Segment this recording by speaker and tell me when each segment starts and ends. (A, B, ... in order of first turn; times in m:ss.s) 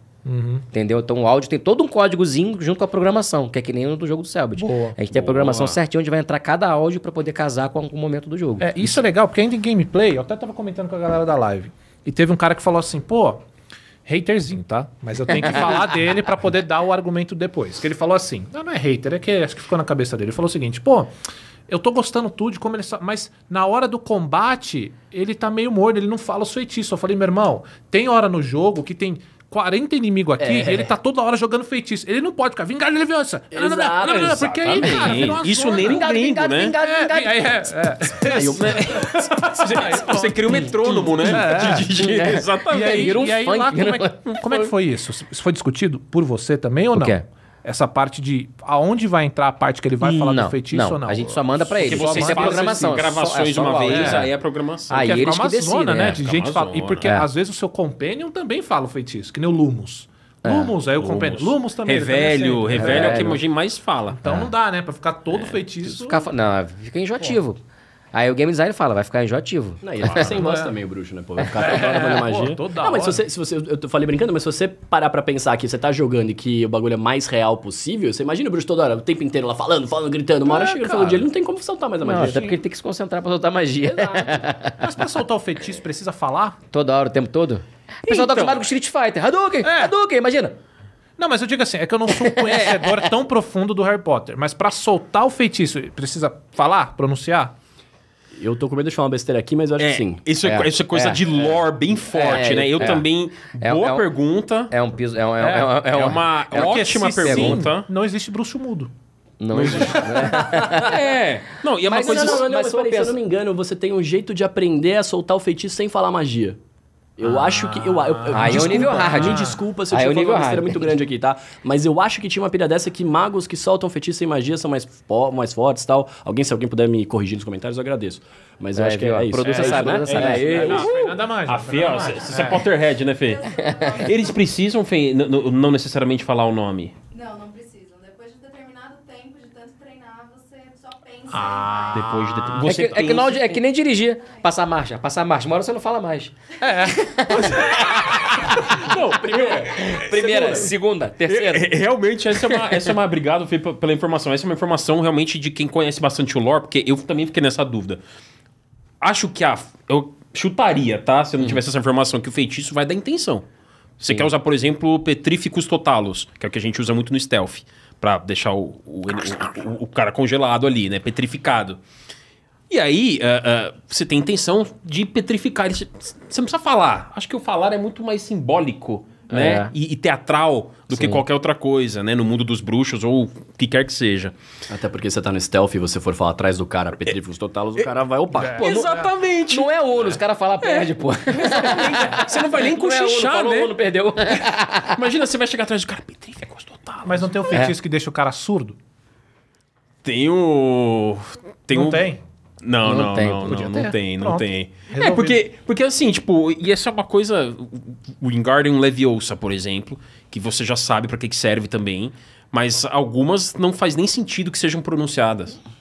0:00.2-0:00.6 A
0:00.7-0:09.0 B
0:04.6-0:05.0 A
0:05.1-0:05.8 C
0:08.6-0:13.4 A
0:14.0-0:21.1 A
0:21.7-0:36.1 A
0:30.4-0:30.9 D
0:33.5-0:35.1 D
0:34.0-0:36.8 C
0:35.7-0:37.6 B
0:36.7-0:53.0 A
0:38.2-0:39.2 D
0:38.6-0:43.2 C
0:41.9-0:44.7 B
0:46.9-0:47.2 B
0:50.0-0:54.3 B
0:51.8-0:55.2 C
0:53.6-0:54.3 A
0:54.9-0:56.2 B
0:54.9-1:03.4 A
0:56.0-0:57.1 C
1:00.4-1:00.7 B
1:01.0-1:04.2 C
1:02.7-1:03.4 B
1:04.1-1:06.3 A
1:05.8-1:07.6 B
1:08.1-1:10.2 B
1:09.8-1:22.6 D
1:10.0-1:10.3 C
1:10.2-1:10.7 A
1:11.5-1:13.2 A
1:20.4-1:21.3 A
1:22.0-1:24.8 B
1:23.8-1:24.5 D
1:24.8-1:26.6 A
1:26.7-1:30.6 B
1:28.1-1:28.6 C
1:29.6-1:29.9 A
1:31.2-1:37.5 A
1:32.1-1:33.0 B
1:38.3-1:40.2 D
1:39.8-1:44.7 C
1:40.4-1:41.2 B
1:42.1-1:43.0 B
1:43.6-1:44.1 B
1:44.7-1:47.6 B
1:45.4-1:45.8 A
1:45.9-1:47.9 C
1:46.5-1:48.9 A
1:49.4-1:51.0 B
1:49.5-1:52.4 C
1:50.2-1:51.1 D
1:51.8-1:53.2 B
1:51.9-1:56.6 D
1:57.2-2:10.9 D
1:57.2-1:59.6 A
1:58.3-2:00.9 B
2:08.7-2:10.9 B
2:09.4-2:12.7 A
2:10.2-2:17.0 C
2:11.9-2:14.5 E
2:17.1-2:22.5 E
2:21.3-2:22.8 A
2:21.9-2:23.6 C
2:22.6-2:31.7 B
2:26.6-2:28.7 A
2:27.4-2:30.6 C
2:28.7-2:30.7 D
2:31.3-2:38.0 C
2:32.4-2:32.9 B
2:39.0-2:43.4 C
2:44.0-2:51.8 C
2:52.7-3:04.4 C
2:59.3-2:59.7 B
3:00.9-3:01.2 B
3:04.7-3:08.6 D
3:08.3-3:09.1 A
3:08.4-3:13.7 C
3:08.6-3:15.0 B
3:14.3-3:17.7 C
3:17.0-3:18.8 A
3:20.0-3:22.0 C
3:21.7-3:22.2 A
3:22.6-3:35.6 C
3:22.8-3:23.9 B
3:23.5-3:25.4 A